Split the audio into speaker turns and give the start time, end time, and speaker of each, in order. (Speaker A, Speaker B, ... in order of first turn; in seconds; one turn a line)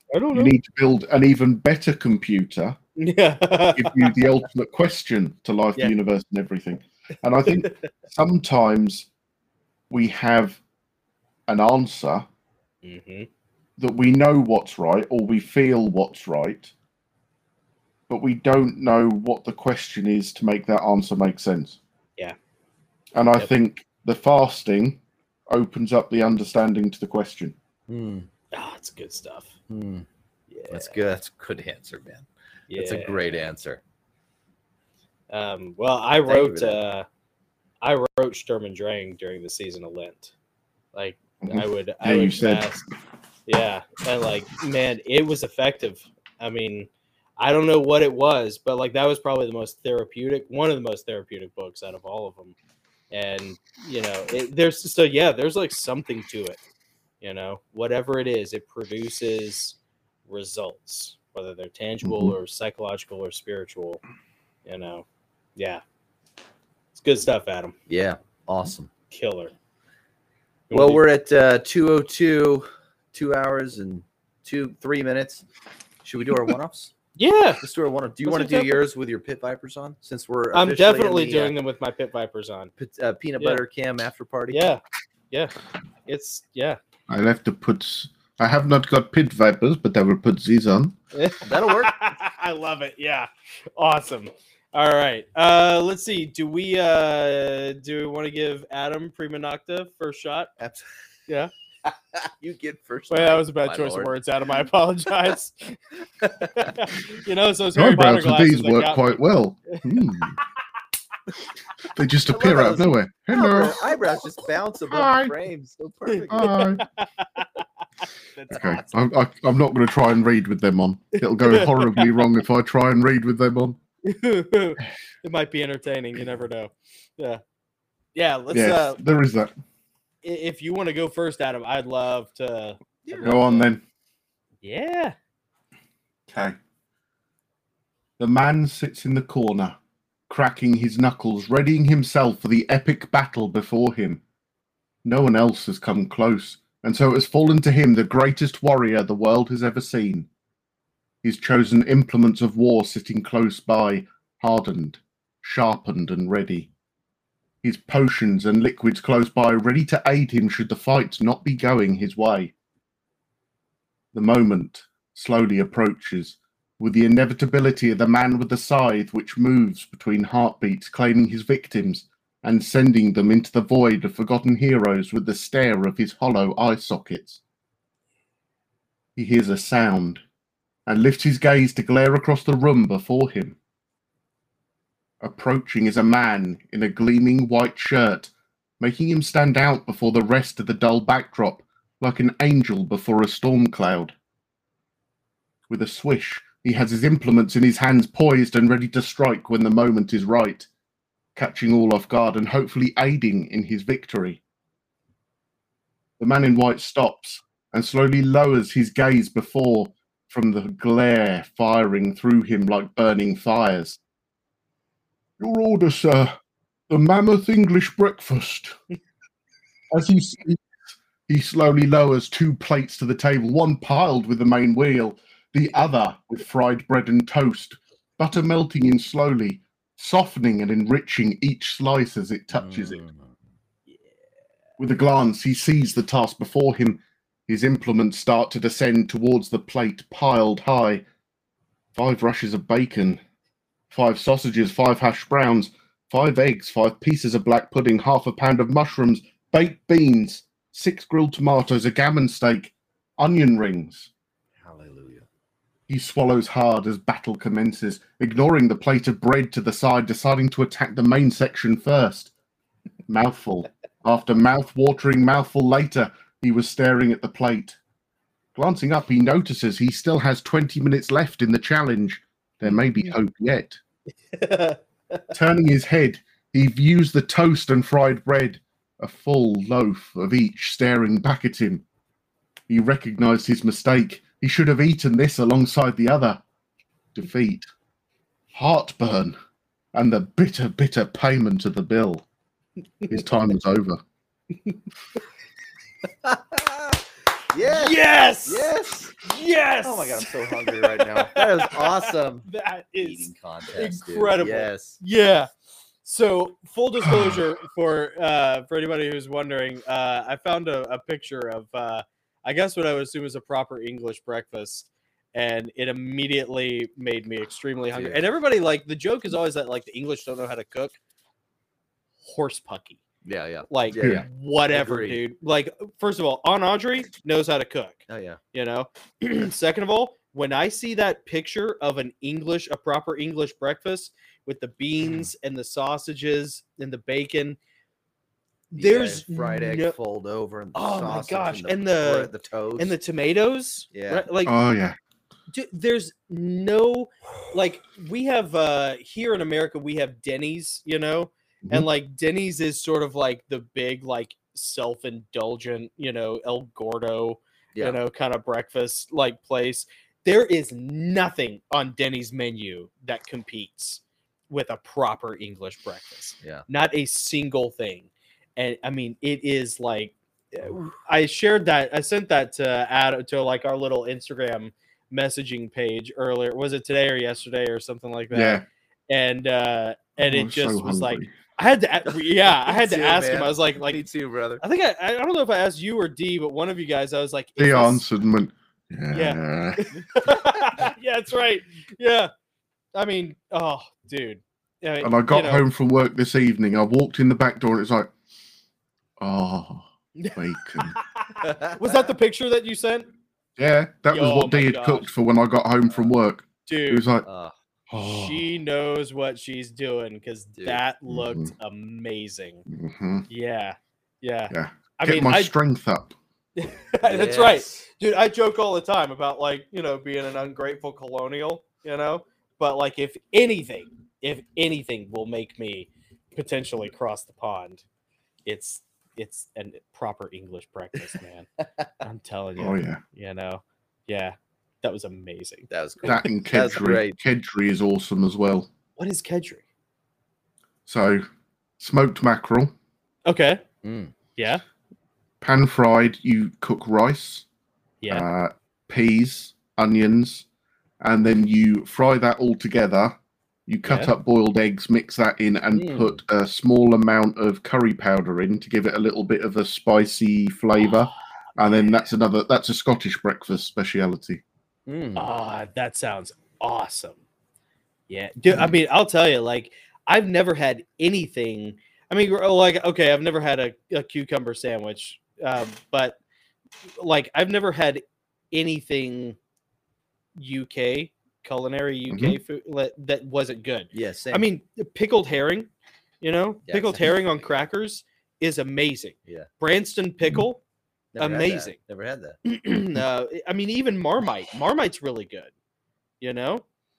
Speaker A: 0.1-0.5
Speaker B: 0.3-2.8
Speaker A: 3.0-4.2
Speaker B: 3.8-9.1
Speaker A: 7.5-7.8
Speaker B: 9.9-10.6
Speaker B: 11.5-12.3
Speaker A: 12.8-13.3
Speaker B: 13.8-16.7
Speaker B: 18.1-21.8
Speaker B: 23.1-27.6
Speaker C: 27.9-28.3
Speaker A: 28.5-29.5
Speaker C: 29.7-30.1
Speaker A: 30.5-31.0
Speaker C: 30.7-33.8
Speaker A: 32.7-33.4
Speaker A: 35.3-37.1
Speaker C: 36.3-36.8
Speaker A: 37.8-40.3
Speaker A: 40.9-42.9
Speaker B: 41.4-42.7
Speaker A: 43.5-52.5
Speaker A: 53.1-56.6
Speaker A: 57.2-59.8
Speaker A: 60.3-64.0
Speaker B: 62.0-62.4
Speaker A: 64.7-65.0
Speaker A: 65.6-65.8
Speaker A: 67.0-67.8
Speaker C: 67.9-68.9
Speaker A: 69.1-69.5
Speaker A: 70.7-71.0
Speaker C: 70.7-75.5
Speaker C: 76.0-76.9
Speaker A: 77.2-77.6
Speaker C: 77.6-81.5
Speaker A: 78.2-78.8
Speaker A: 80.5-82.7
Speaker C: 82.8-84.7
Speaker A: 84.5-85.5
Speaker A: 86.1-86.8
Speaker B: 87.1-91.0
Speaker A: 91.1-100.5
Speaker C: 91.4-92.0
Speaker C: 100.6-100.9
Speaker C: 101.9-104.2
Speaker A: 103.1-109.2
Speaker C: 106.4-106.7
Speaker B: 107.8-110.4
Speaker B: 111.8-113.8
Speaker C: 112.3-116.5
Speaker B: 114.9-115.3
Speaker A: 116.1-117.6
Speaker B: 116.3-116.8
Speaker A: 118.3-118.9
Speaker B: 118.5-123.8
Speaker A: 121.3-122.2
Speaker A: 124.0-127.4
Speaker A: 128.2-129.0
Speaker B: 128.5-129.5
Speaker A: 130.2-133.7
Speaker C: 133.1-133.4
Speaker B: 133.2-133.8
Speaker A: 134.6-135.2
Speaker B: 136.3-136.6
Speaker B: 138.2-139.8
Speaker B: 140.3-144.2
Speaker B: 145.0-150.3
Speaker B: 151.2-156.7
Speaker B: 157.6-162.5
Speaker B: 164.1-177.4
Speaker B: 179.2-180.2
Speaker B: 180.9-183.6
Speaker B: 185.2-194.1
Speaker B: 195.7-200.7
Speaker B: 201.3-204.4
Speaker B: 206.2-214.0
Speaker B: 215.4-216.3
Speaker B: 216.9-218.8
Speaker B: 219.9-233.0
Speaker C: 232.5-233.4
Speaker B: 234.8-241.0
Speaker B: 241.9-243.2
Speaker B: 243.9-254.1
Speaker C: 254.6-255.3
Speaker B: 255.9-262.3
Speaker B: 263.1-267.8
Speaker B: 268.6-273.8
Speaker A: 274.3-275.2
Speaker B: 275.3-281.8
Speaker B: 282.7-286.4
Speaker B: 287.1-287.7
Speaker B: 288.5-289.4
Speaker B: 289.9-292.2
Speaker B: 293.1-294.0
Speaker C: 296.2-297.0
Speaker C: 297.5-299.2
Speaker A: 297.6-305.5
Speaker C: 299.8-302.5
Speaker C: 303.0-305.0
Speaker A: 306.0-321.0
Speaker B: 307.1-307.4
Speaker C: 317.9-318.2
Speaker A: 322.2-323.0
Speaker C: 323.2-325.2
Speaker A: 323.7-337.6
Speaker B: 324.0-324.2
Speaker C: 328.1-328.4
Speaker A: 338.7-339.9
Speaker C: 338.7-343.0
Speaker A: 340.8-344.6
Speaker C: 343.9-344.3
Speaker B: 344.4-345.0
Speaker A: 345.5-384.1
Speaker B: 378.3-378.7
Speaker B: 380.2-381.3
Speaker C: 382.1-384.6
Speaker A: 384.6-388.0
Speaker B: 387.6-389.9
Speaker A: 389.1-392.3
Speaker A: 392.9-395.6
Speaker B: 395.0-398.1
Speaker B: 399.2-401.0
Speaker A: 400.2-403.1
Speaker C: 401.4-402.0
Speaker B: 403.6-407.3
Speaker A: 404.1-405.1
Speaker A: 406.7-407.1
Speaker C: 407.2-407.5
Speaker B: 407.9-408.4
Speaker A: 407.9-412.6
Speaker B: 411.1-411.5
Speaker B: 412.7-413.3
Speaker A: 413.3-415.5
Speaker B: 414.5-416.1
Speaker A: 416.6-427.8
Speaker C: 417.0-417.8
Speaker A: 428.5-431.5
Speaker A: 432.0-435.7
Speaker B: 432.6-433.0
Speaker C: 435.7-437.2
Speaker B: 436.0-438.7
Speaker A: 439.0-439.6
Speaker B: 440.9-441.2
Speaker B: 441.8-442.7
Speaker A: 443.3-443.6
Speaker C: 443.8-444.1
Speaker A: 444.4-444.6
Speaker B: 445.4-447.5
Speaker B: 448.1-450.5
Speaker B: 451.0-464.4
Speaker A: 453.9-454.1
Speaker A: 455.8-456.1
Speaker A: 461.7-462.0
Speaker C: 464.9-465.3
Speaker A: 465.2-467.2
Speaker A: 468.1-476.2
Speaker A: 477.0-479.4
Speaker A: 480.4-485.7
Speaker B: 482.1-482.4
Speaker C: 483.9-484.5
Speaker A: 486.2-490.6
Speaker C: 486.7-487.4
Speaker C: 491.1-492.4
Speaker A: 491.2-491.8
Speaker A: 492.4-495.5
Speaker A: 496.2-496.6